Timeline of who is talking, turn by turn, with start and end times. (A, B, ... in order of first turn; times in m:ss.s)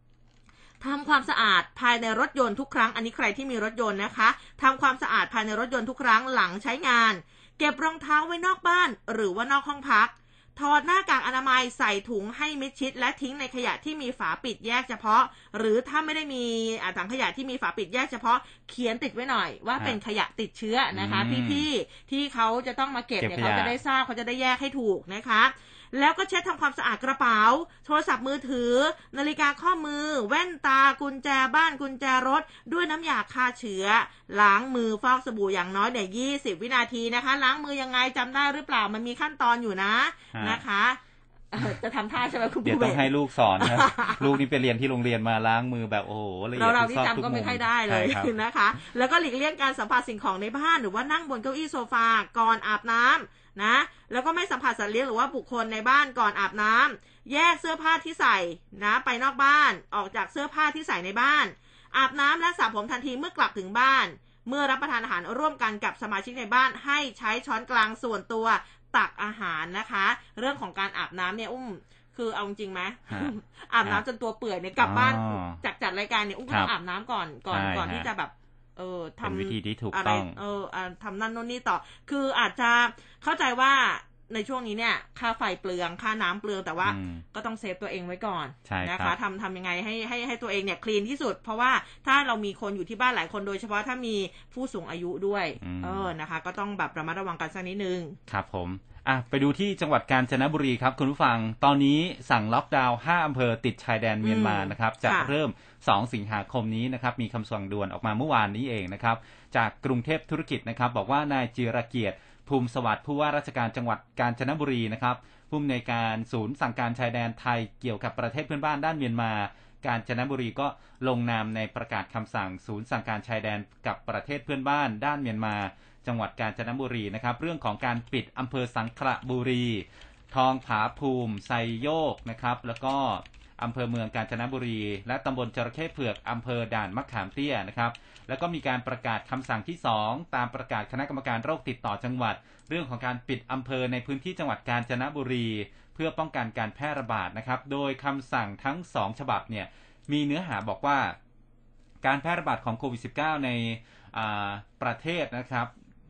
0:00.8-0:41.0 A
0:20.9-0:21.6 B
0:23.2-0:23.8 B
0:40.3-0:40.6 B
0:41.5-0:44.3 A
0:42.6-0:48.3 B
0:46.6-1:38.2 A
1:14.8-1:15.6 B
1:17.5-1:18.1 B
1:19.2-1:20.4 B
1:26.8-1:27.2 B
1:28.7-1:29.2 B
1:35.6-1:36.1 B
1:38.3-2:31.2 B
1:44.2-1:45.3 A
2:32.0-2:35.7 B